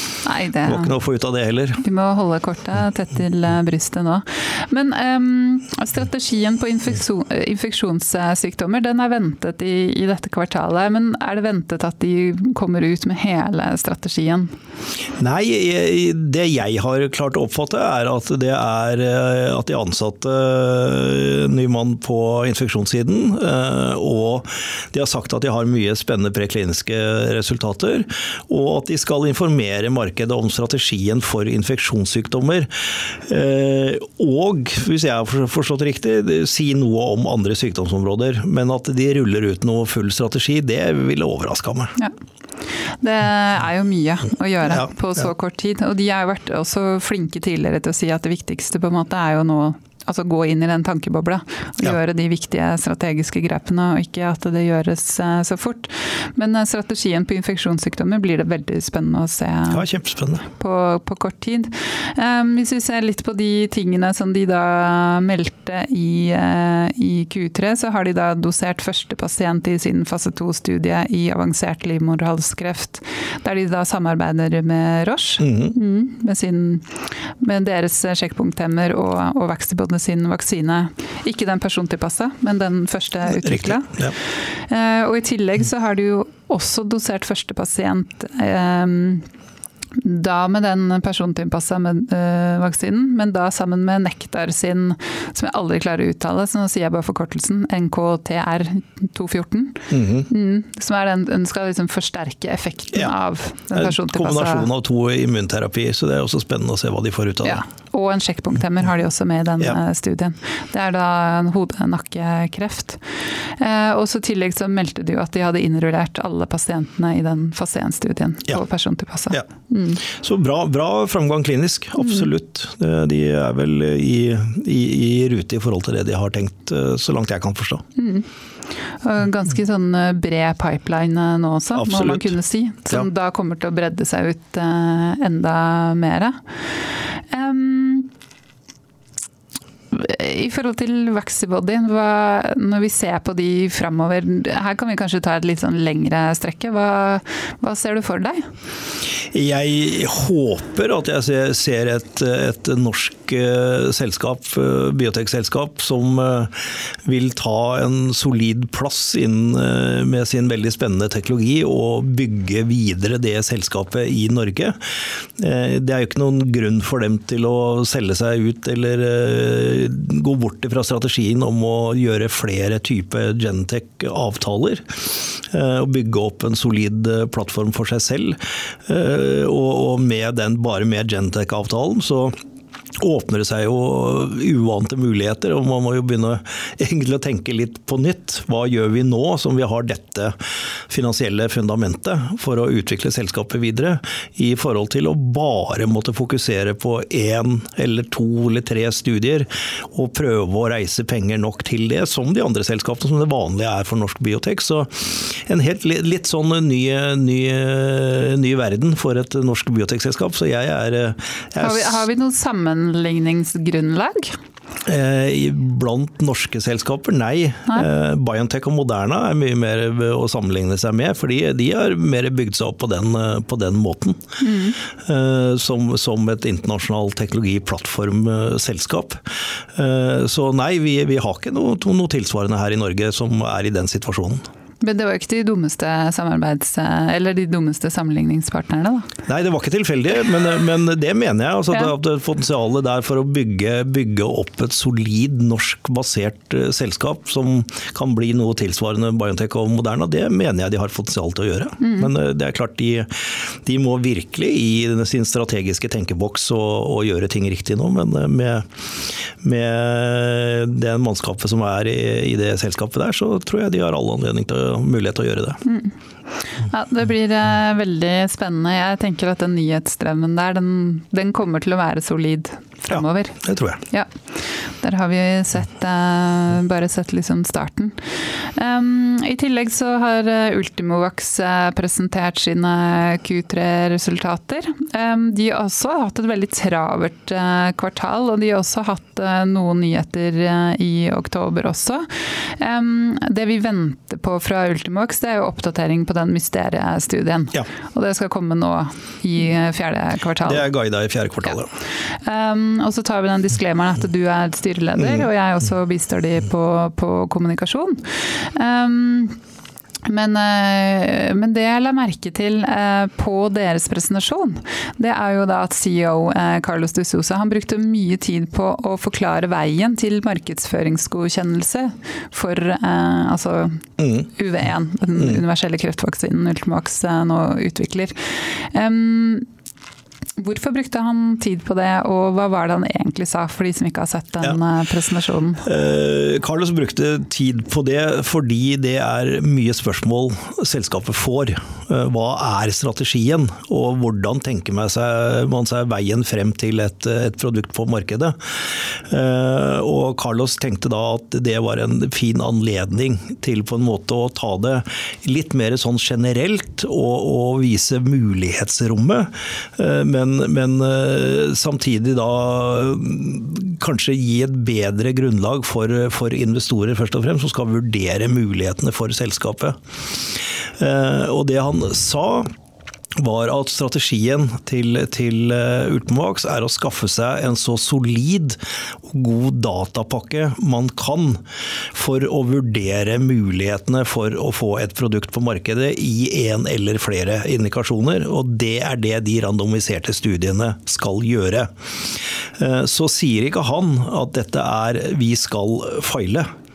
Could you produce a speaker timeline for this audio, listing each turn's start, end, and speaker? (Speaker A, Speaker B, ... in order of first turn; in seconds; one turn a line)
Speaker A: 0.2-0.9
Speaker B: 0.6-1.8
Speaker A: 1.8-14.5
Speaker B: 15.2-32.7
Speaker B: 33.2-42.0
Speaker A: 43.0-59.8
Speaker B: 59.7-60.4
Speaker A: 60.4-84.0
Speaker B: 75.4-75.7
Speaker B: 83.3-84.1
Speaker A: 84.7-89.3
Speaker A: 90.0-104.7
Speaker B: 99.9-100.3
Speaker B: 103.7-107.6
Speaker A: 107.4-113.0
Speaker A: 113.5-120.0
Speaker B: 120.0-127.8
Speaker A: 122.0-122.3
Speaker A: 128.0-128.3
Speaker A: 129.0-136.4
Speaker B: 131.7-132.3
Speaker A: 137.3-138.1
Speaker A: 139.9-148.5
Speaker B: 149.3-164.8
Speaker B: 165.4-182.3
Speaker B: 183.0-190.3
Speaker B: 190.9-212.0
Speaker A: 211.6-214.3
Speaker B: 214.8-224.2
Speaker A: 224.4-224.8
Speaker B: 225.0-229.2
Speaker B: 229.7-234.4
Speaker A: 234.8-239.1
Speaker B: 239.3-258.7
Speaker A: 251.8-252.1
Speaker B: 259.4-265.6
Speaker A: 265.6-265.9
Speaker A: 266.5-274.1
Speaker B: 272.9-273.8
Speaker A: 274.8-300.6
Speaker B: 300.4-301.7
Speaker A: 302.2-309.4
Speaker B: 305.0-305.3
Speaker A: 310.1-329.5
Speaker B: 324.0-324.2
Speaker A: 330.4-335.6
Speaker B: 335.6-372.5
Speaker B: 373.1-381.4
Speaker B: 381.9-391.7
Speaker B: 392.6-396.5